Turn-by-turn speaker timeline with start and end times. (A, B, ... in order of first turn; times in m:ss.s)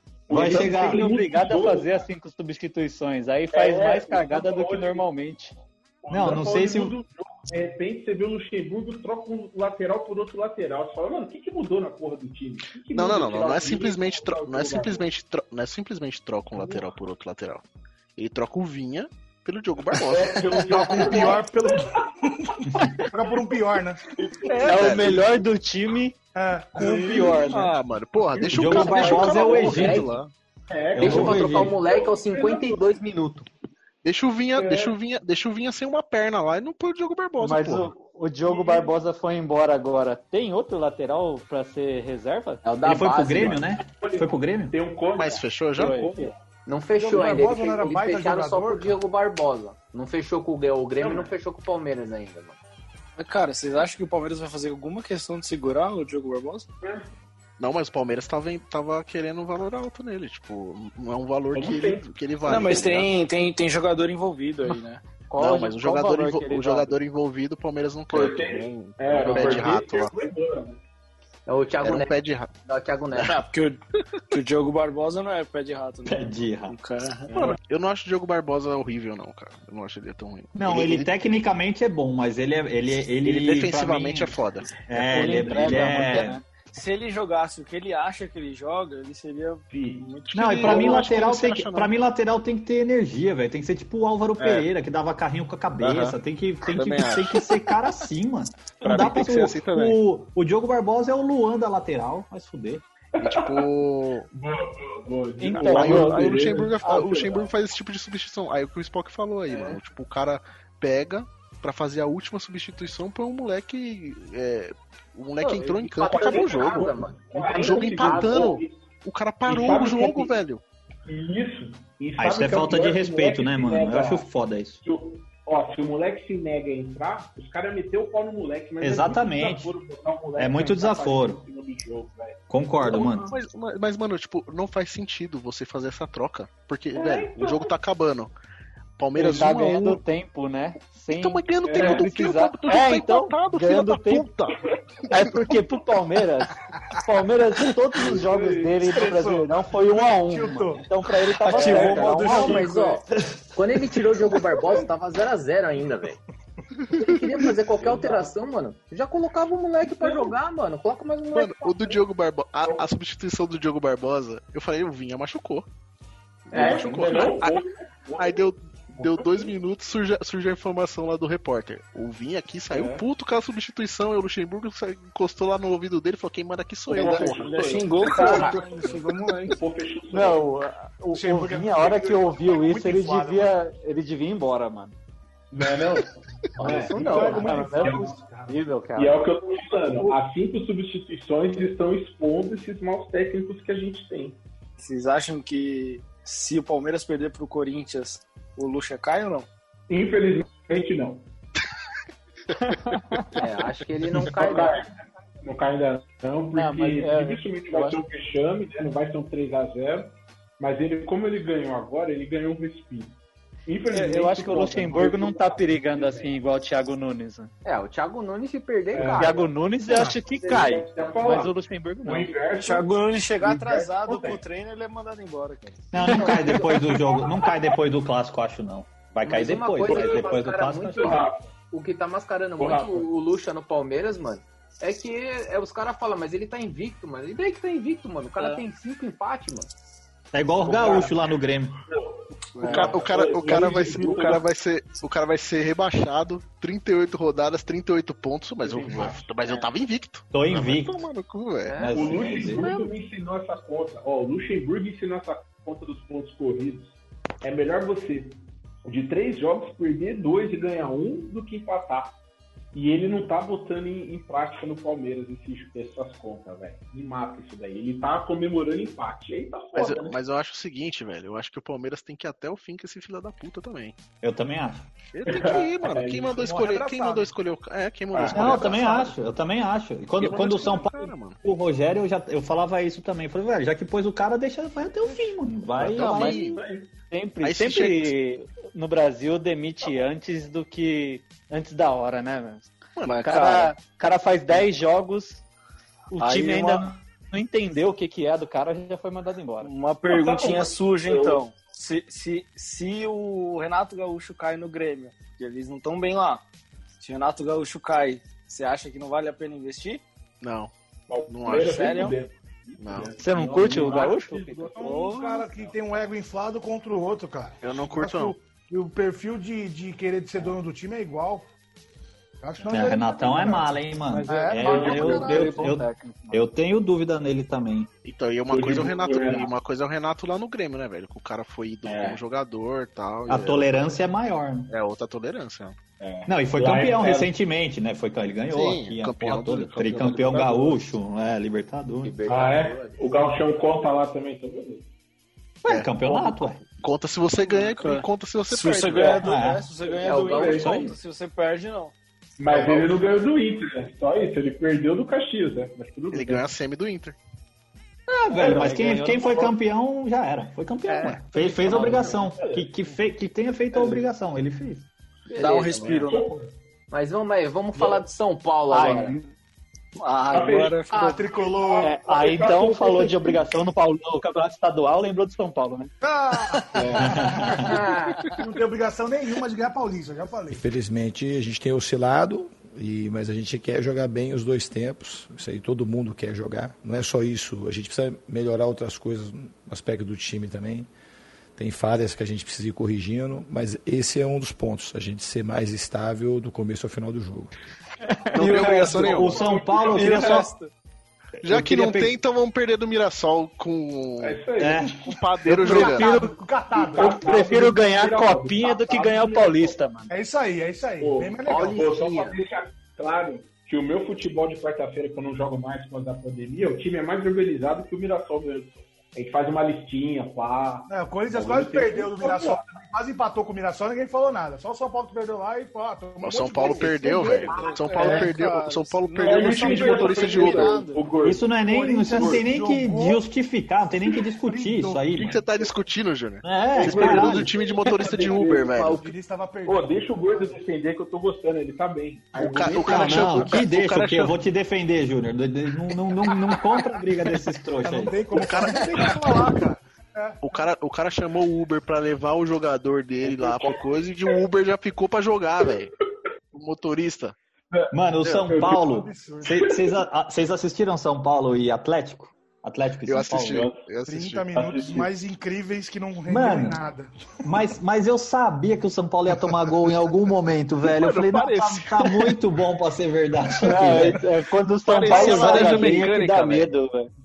0:00.3-0:02.0 A
0:00.3-0:01.1 B
0:00.3-0:05.6 C
0:03.5-0:05.0 A
0:06.0-0:15.1 A
0:06.1-0:07.0 B
0:12.9-0:17.6 D
0:16.5-0:16.9 A
0:18.2-0:21.2 D
0:20.0-0:21.7 A
0:20.7-0:21.9 E
0:23.1-0:24.0 E
0:24.2-0:25.1 A
0:24.5-0:25.0 F
0:24.6-0:25.2 D
0:24.6-0:26.2 C
0:26.3-0:27.2 E
0:26.8-0:27.7 C
0:26.8-0:27.4 A
0:27.2-0:30.3 D
0:28.3-0:29.9 A
0:28.5-0:30.1 B
0:29.1-0:30.1 G
0:30.7-0:32.9 A
0:30.9-0:31.8 B
0:31.0-0:33.4 G
0:34.0-0:37.9 D
0:34.5-0:34.9 A
0:37.4-0:42.6 C
0:38.4-0:38.9 A
0:42.6-0:43.6 G
0:42.8-0:44.8 B
0:43.3-0:46.4 A
0:45.2-0:46.1 D
0:45.8-0:46.1 C
0:46.6-0:52.6 G
0:47.0-0:49.0 E
0:51.0-0:51.3 A
0:53.2-0:56.7 F
0:57.6-1:03.1 D
1:01.5-1:02.0 A
1:02.4-1:05.0 F
1:05.3-1:07.0 C
1:05.4-1:10.1 D
1:08.1-1:10.8 A
1:09.1-1:09.7 G
1:11.5-1:13.4 G
1:11.8-1:12.5 D
1:13.2-1:17.4 F
1:16.0-1:16.7 B
1:17.3-1:21.1 D
1:20.5-1:26.4 B
1:23.2-1:24.8 D
1:25.0-1:26.4 C
1:26.7-1:31.0 F
1:29.7-1:30.1 A
1:30.3-1:31.9 D
1:30.3-1:42.8 B
1:30.6-1:30.9 A
1:35.8-1:36.2 D
1:36.7-1:37.3 D
1:38.8-1:40.0 D
1:43.2-1:43.7 A
1:43.2-1:44.3 D
1:44.3-1:47.4 A
1:45.4-1:47.2 C
1:45.5-2:00.6 D
1:55.4-1:58.5 G
1:56.0-1:58.8 A
1:59.4-2:00.3 A
2:01.0-2:04.3 A
2:02.2-2:04.8 B
2:04.8-2:12.4 A
2:08.8-2:09.7 B
2:10.4-2:11.4 B
2:12.5-2:13.3 B
2:12.8-2:18.3 D
2:16.9-2:17.7 A
2:19.0-2:20.0 D
2:19.1-2:24.3 C
2:21.1-2:24.6 D
2:21.7-2:22.1 A
2:25.1-2:26.5 C
2:27.0-2:32.7 C
2:28.0-2:28.8 A
2:28.8-2:30.9 E
2:31.5-2:32.7 A
2:31.5-2:32.7 F
2:32.1-2:36.2 G
2:36.9-2:42.0 G
2:37.7-2:38.3 A
2:40.0-2:40.3 A
2:41.3-2:45.7 D
2:46.5-2:47.6 D
2:46.5-2:49.5 A
2:46.5-2:47.0 G
2:48.2-2:57.4 D
2:52.7-2:53.0 A
2:56.9-3:00.4 A
2:56.9-2:59.6 F
3:00.1-3:04.9 C
3:01.1-3:03.5 E
3:05.5-3:08.1 A
3:06.6-3:08.6 E
3:06.7-3:09.2 C
3:08.9-3:14.4 A
3:14.8-3:19.5 F
3:19.9-3:21.2 A
3:22.6-3:23.3 C
3:23.4-3:24.8 G
3:24.3-3:24.9 A
3:25.4-3:36.3 A
3:26.5-3:28.0 C
3:33.9-3:37.5 C
3:37.6-3:40.7 G
3:38.9-3:44.4 A
3:39.2-3:42.3 C
3:42.6-3:45.8 F
3:45.9-3:51.2 B
3:46.0-3:46.7 C
3:46.1-3:46.8 G
3:49.2-3:59.7 G
3:49.8-3:50.3 A
3:51.0-3:51.4 A
3:52.6-3:53.1 A
4:00.3-4:01.8 B
4:00.6-4:01.2 A
4:02.5-4:04.4 A
4:02.6-4:03.1 F
4:02.6-4:11.9 D
4:08.6-4:09.5 A
4:10.3-4:11.0 B
4:11.6-4:12.8 G
4:11.8-4:12.6 B
4:11.9-4:22.2 A
4:22.7-4:30.2 A
4:29.7-4:34.0 D
4:34.2-4:34.9 B
4:35.1-4:39.1 D
4:35.2-4:36.5 A
4:36.4-4:37.3 E
4:38.1-4:38.9 A
4:38.3-4:46.4 B
4:40.2-4:41.4 D
4:45.0-4:45.3 E
4:45.8-4:46.6 D
4:46.0-4:46.5 C
4:46.6-4:46.8 A
4:47.1-4:52.7 C
4:47.4-4:48.1 D
4:53.0-4:53.3 D
4:53.0-4:53.8 F
4:53.2-4:55.4 C
4:56.1-4:59.7 C
4:56.2-4:56.9 F
4:59.6-5:06.4 F
5:00.1-5:01.4 A
5:07.0-5:10.0 F
5:10.4-5:10.7 D
5:11.1-5:15.7 A
5:11.3-5:12.0 D
5:11.5-5:12.2 F
5:12.8-5:13.1 D
5:13.2-5:14.7 C
5:14.8-5:21.4 E
5:14.8-5:15.5 F
5:17.6-5:18.3 D
5:22.4-5:25.2 E
5:22.6-5:27.9 B
5:24.1-5:26.4 C
5:24.7-5:25.4 A
5:28.0-5:33.8 D
5:28.5-5:29.5 A
5:31.8-5:32.2 A
5:33.3-5:34.7 B
5:34.7-5:35.8 D
5:36.0-5:37.3 A
5:36.2-5:42.2 B
5:38.5-5:40.6 D
5:40.4-5:40.6 A
5:42.0-5:43.1 G
5:42.2-5:44.8 A
5:45.6-5:46.6 B
5:45.6-5:49.2 D
5:47.4-5:51.9 F
5:48.9-5:49.3 A
5:49.2-5:49.6 B
5:49.9-5:50.9 A
5:50.0-5:50.9 G
5:52.4-5:56.5 A
5:56.1-5:57.2 D
5:58.1-6:04.9 B
5:58.3-5:59.5 C
6:01.4-6:02.7 A
6:03.7-6:04.0 A
6:05.3-6:06.3 F
6:05.3-6:06.0 G
6:05.4-6:06.5 A
6:06.9-6:09.2 G
6:08.7-6:09.2 C
6:10.0-6:11.3 F
6:10.3-6:10.8 A
6:10.9-6:11.9 E
6:11.6-6:13.4 A
6:11.8-6:15.9 C
6:16.0-6:17.7 E
6:16.7-6:17.6 A
6:17.0-6:17.7 B
6:17.5-6:18.3 G
6:18.3-6:20.6 E
6:20.5-6:30.9 H
6:31.6-6:37.5 H
6:38.1-6:38.7 C
6:38.3-6:39.4 D
6:38.4-6:39.2 F
6:38.5-6:40.4 A
6:38.6-6:40.5 B
6:39.7-6:40.7 F
6:41.4-6:42.1 B
6:41.4-6:44.4 D
6:44.2-6:45.0 A
6:44.6-6:44.9 B
6:45.0-6:46.1 D
6:45.5-6:50.1 C
6:45.6-6:47.2 E
6:46.8-6:49.8 A
6:50.1-6:51.8 E
6:51.0-7:02.6 A
6:51.5-6:52.3 G
7:00.9-7:08.2 E
7:06.2-7:10.8 D
7:07.3-7:11.0 F
7:07.5-7:08.2 A
7:09.2-7:11.4 A
7:09.8-7:10.0 E
7:11.2-7:15.4 B
7:11.5-7:13.2 E
7:14.2-7:15.2 E
7:15.1-7:19.0 D
7:16.4-7:17.5 B
7:16.8-7:18.8 A
7:18.1-7:19.0 G
7:18.2-7:20.6 E
7:19.6-7:23.4 A
7:22.3-7:24.4 D
7:22.8-7:28.2 B
7:27.8-7:30.4 E
7:28.3-7:29.2 D
7:30.4-7:35.9 D
7:33.2-7:33.8 A
7:36.5-7:37.3 D
7:37.9-7:43.7 B
7:38.4-7:38.9 A
7:38.6-7:39.7 E
7:43.0-7:44.5 D
7:43.4-7:43.7 A
7:44.1-7:47.1 E
7:44.5-7:45.1 A
7:46.3-7:46.8 B
7:47.4-7:54.2 B
7:51.0-7:51.8 D
7:53.5-7:57.1 C
7:54.8-7:56.4 D
7:55.1-7:56.7 F
7:55.4-7:56.0 B